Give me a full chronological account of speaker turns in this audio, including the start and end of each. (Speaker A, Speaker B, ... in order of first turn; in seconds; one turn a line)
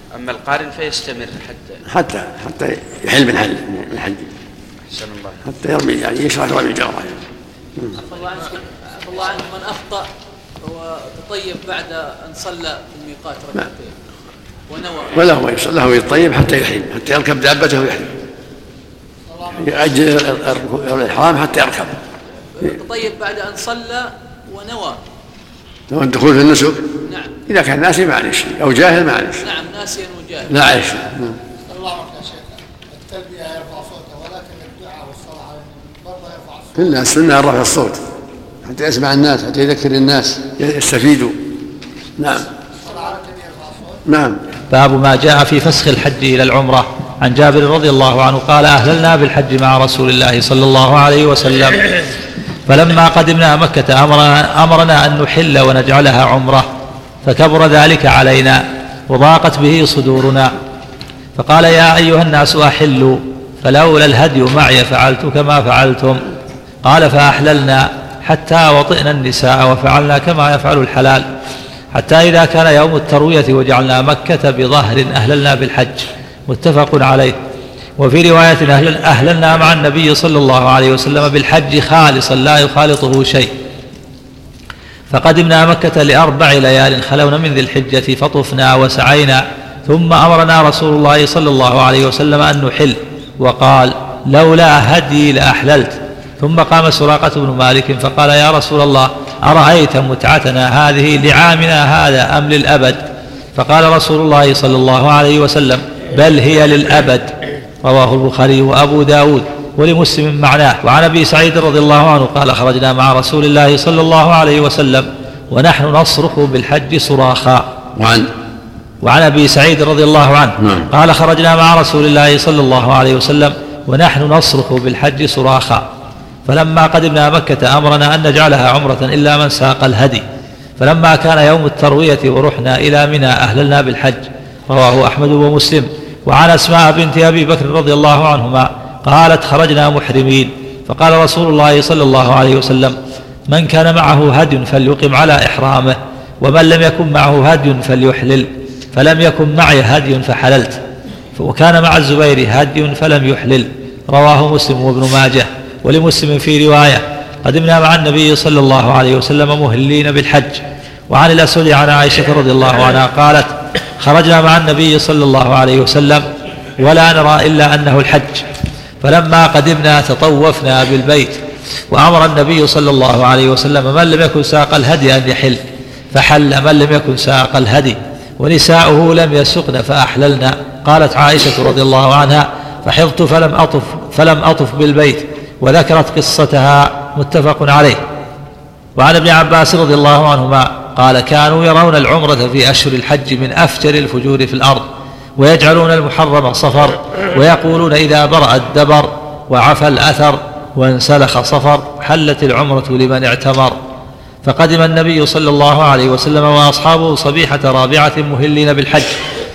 Speaker A: 0.1-1.8
Speaker B: 1.9-4.3
Speaker A: 4.9-5.4
Speaker B: 5.4-7.2
Speaker C: 7.9-10.1
Speaker C: 10.6-13.9
Speaker C: 14.7-15.3
Speaker B: 15.1-18.1
Speaker D: 19.2-20.3
Speaker B: 19.6-22.0
Speaker C: 22.6-25.0
Speaker B: 25.9-26.8
Speaker C: 27.1-27.3
Speaker B: 27.5-29.4
Speaker C: 29.4-30.6
Speaker B: 30.4-31.4
Speaker D: 31.7-37.2
Speaker B: 36.7-38.0
Speaker B: 38.6-41.3
Speaker B: 42.2-42.5
Speaker D: 42.8-44.0
Speaker B: 44.0-44.4
Speaker E: 44.7-51.9
Speaker E: 52.7-56.7
Speaker E: 57.2-60.5
Speaker E: 61.4-66.2
Speaker E: 66.9-71.2
Speaker E: 71.9-77.4
Speaker E: 78.0-83.5
Speaker E: 85.1-103.0
Speaker E: 103.5-107.3
Speaker E: 107.8-117.6
Speaker B: 118.0-118.3
Speaker E: 119.0-125.9
Speaker B: 120.6-120.9
Speaker E: 126.5-130.2
Speaker E: 130.8-142.9
Speaker E: 143.5-150.8
Speaker E: 151.4-166.2
Speaker E: 166.8-168.4
Speaker E: 169.0-171.4
Speaker E: 171.9-175.6
Speaker E: 176.1-188.0
Speaker E: 189.0-194.8
Speaker E: 195.4-203.8
Speaker E: 204.4-209.2